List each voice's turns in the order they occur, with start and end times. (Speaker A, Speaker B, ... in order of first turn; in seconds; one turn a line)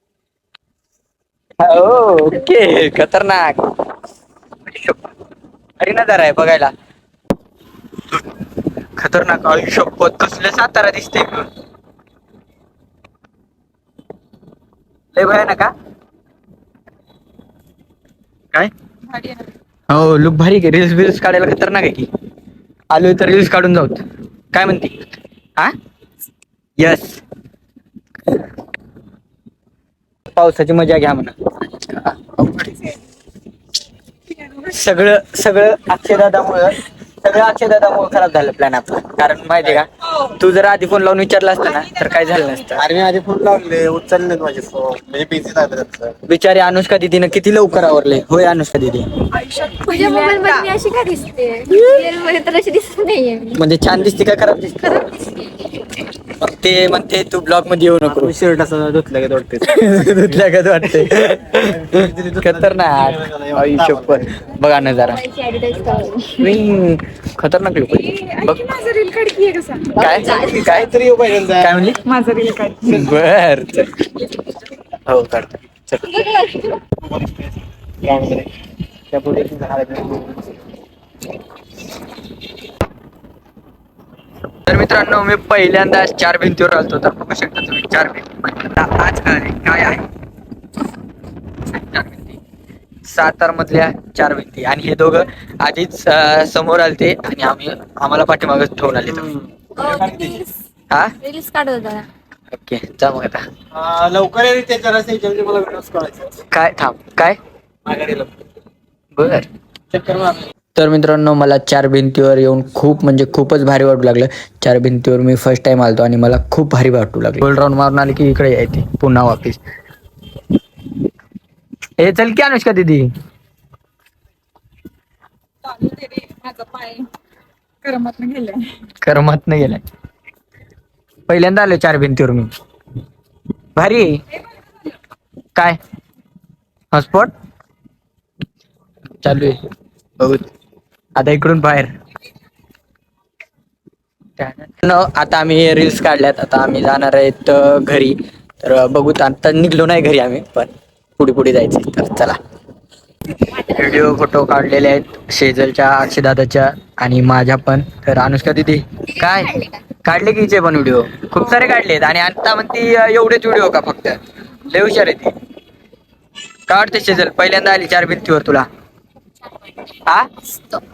Speaker A: 1.6-3.7
Speaker A: 4.6-5.1
Speaker A: 5.8-6.7
Speaker A: 8.9-11.5
Speaker A: 15.1-15.7
Speaker B: 19.1-19.5
Speaker A: 19.9-22.1
Speaker A: 22.9-25.7
Speaker A: 26.8-27.2
Speaker A: 30.3-32.8
Speaker A: 34.6-42.9
Speaker B: 41.6-42.8
Speaker C: 42.8-46.1
Speaker A: 46.3-49.1
Speaker B: 49.3-50.7
Speaker D: 49.8-53.6
Speaker A: 53.6-55.1
Speaker D: 55.0-55.7
Speaker A: 56.4-58.3
Speaker C: 58.0-64.5
Speaker A: 59.6-65.2
Speaker D: 64.7-66.5
Speaker A: 66.4-68.6
Speaker B: 67.9-70.3
Speaker A: 70.0-70.9
Speaker D: 70.0-70.7
Speaker C: 70.2-71.8
Speaker A: 71.6-72.0
Speaker B: 72.0-73.1
Speaker A: 72.8-73.9
Speaker A: 75.1-76.1
Speaker D: 76.0-76.8
Speaker C: 77.0-78.5
Speaker C: 79.1-80.5
Speaker A: 84.7-90.0
Speaker A: 91.7-92.4
Speaker A: 93.0-99.3
Speaker C: 99.0-100.4
Speaker D: 99.8-100.5
Speaker D: 101.2-102.1
Speaker A: 102.5-103.4
Speaker C: 103.7-106.4
Speaker A: 106.5-107.4
Speaker C: 107.8-108.3
Speaker A: 109.2-109.5
Speaker C: 109.9-110.4
Speaker A: 110.7-119.6
Speaker A: 122.0-123.1
Speaker B: 125.6-127.1
Speaker B: 127.8-128.8
Speaker A: 129.0-129.8
Speaker A: 131.3-132.5
Speaker A: 133.8-134.2
Speaker B: 134.5-134.9
Speaker A: 136.9-137.3
Speaker A: 139.2-139.6
Speaker A: 140.2-140.5
Speaker A: 141.2-141.9
Speaker A: 144.4-152.4
Speaker D: 153.5-154.1
Speaker A: 153.6-165.3
Speaker D: 159.2-159.8
Speaker A: 166.7-168.7
Speaker D: 169.4-169.9
Speaker D: 170.5-170.8